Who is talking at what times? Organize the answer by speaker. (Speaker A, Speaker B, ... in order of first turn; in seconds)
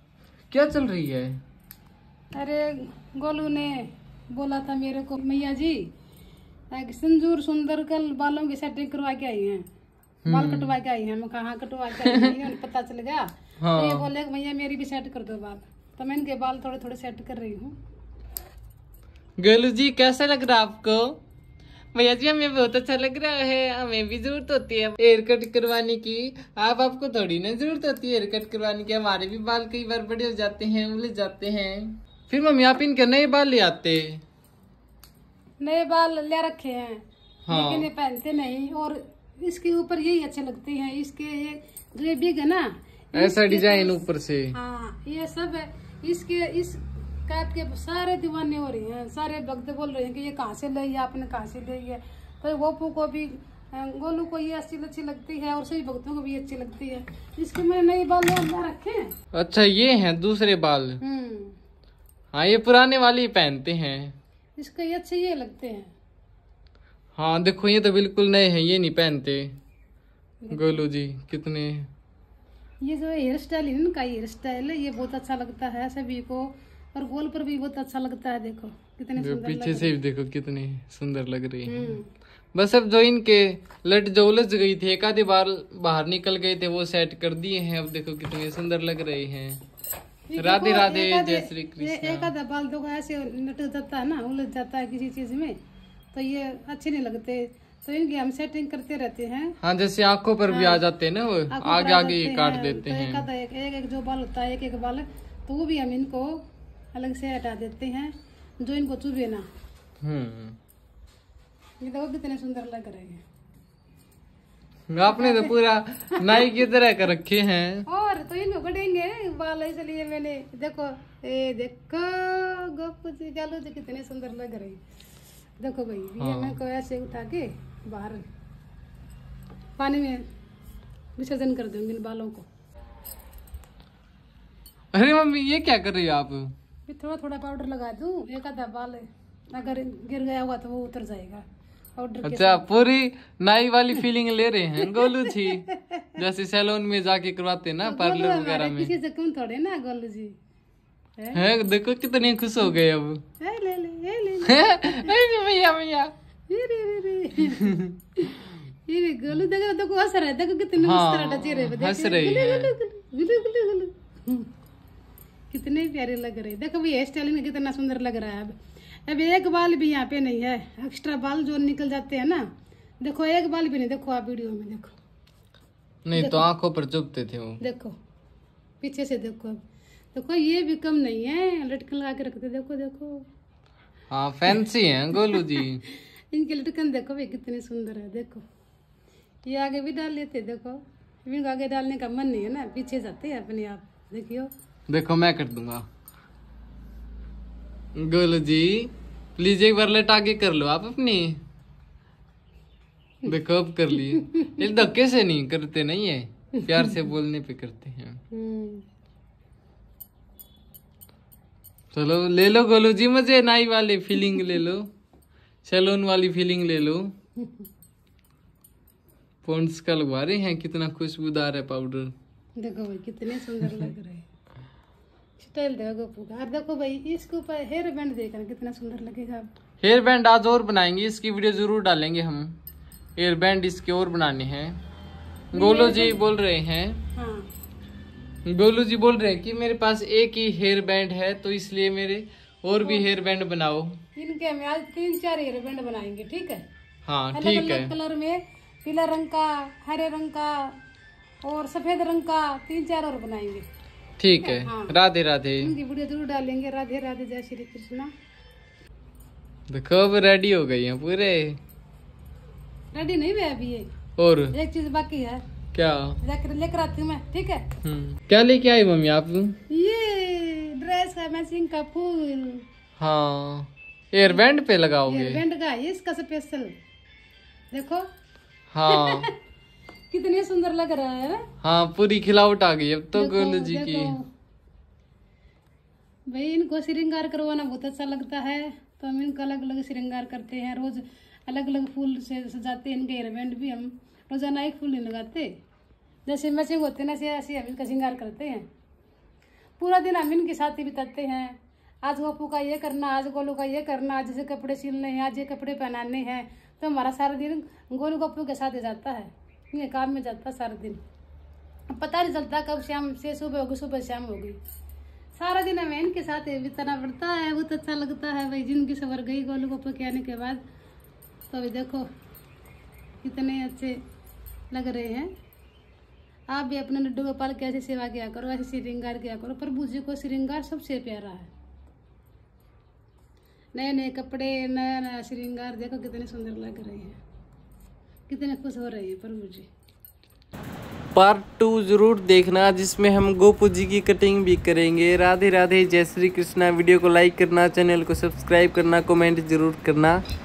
Speaker A: 0.5-1.4, 10.2-10.7, 12.1-12.3, 13.6-14.1, 19.4-21.2, 21.9-34.2, 37.5-37.9, 43.1-44.6, 59.3-61.0, 62.3-64.2, 67.2-69.5, 70.5-71.9, 79.2-82.0, 82.5-89.6, 90.4-92.3, 99.6-103.2, 110.0-110.6, 114.9-117.8, 126.2-126.6, 134.9-136.5, 142.2-148.9, 151.3-153.2, 154.4-156.1, 157.5-157.8, 160.8-162.7, 176.1-177.6, 184.1-185.8, 194.9-195.9, 198.0-201.4, 203.2-208.2, 211.9-214.9, 215.6-217.1, 219.4-222.1, 229.8-232.6, 233.2-234.8, 235.5-237.0, 238.5-244.0, 247.1-247.9, 254.2-255.7, 259.7-261.6, 264.2-264.6, 265.7-266.2, 267.8-269.6, 273.0-275.4, 278.7-279.3, 281.6-284.1, 341.1-350.2
Speaker B: 2.4-5.9, 6.7-9.7, 10.3-17.8, 35.6-59.1, 61.0-61.6, 64.6-65.9, 70.4-70.8, 72.8-80.0, 81.7-82.1, 90.3-95.6, 96.1-99.6, 100.5-100.8, 101.5-109.5, 111.8-113.2, 115.1-115.5, 117.9-124.8, 125.6-128.2, 129.8-130.2, 131.2-132.4, 136.9-141.4, 142.0-142.7, 144.8-146.2, 147.8-150.4, 153.4-155.1, 156.5-164.5, 165.5-168.6, 169.1-172.5, 173.0-174.9, 176.1-176.5, 177.6-177.9, 178.8-179.6, 180.1-183.3, 185.3-188.4, 189.4-194.5, 208.3-208.8, 217.4-217.7, 222.6-224.3, 225.4-229.5, 235.5-236.2, 237.2-237.5, 242.8-243.1, 244.2-246.7, 247.3-250.8, 251.4-253.7, 254.4-254.9, 255.6-258.1, 262.9-263.9, 264.5-265.4, 266.2-267.7, 269.7-272.6, 275.1-276.7, 277.7-278.1, 278.9-279.3, 280.1-281.5, 283.1-284.2, 286.3-295.5, 296.3-298.7, 299.8-311.0, 311.9-314.6, 315.4-320.6, 321.5-322.1, 323.2-324.0, 324.7-325.3, 326.5-331.5, 333.7-337.2, 338.3-339.7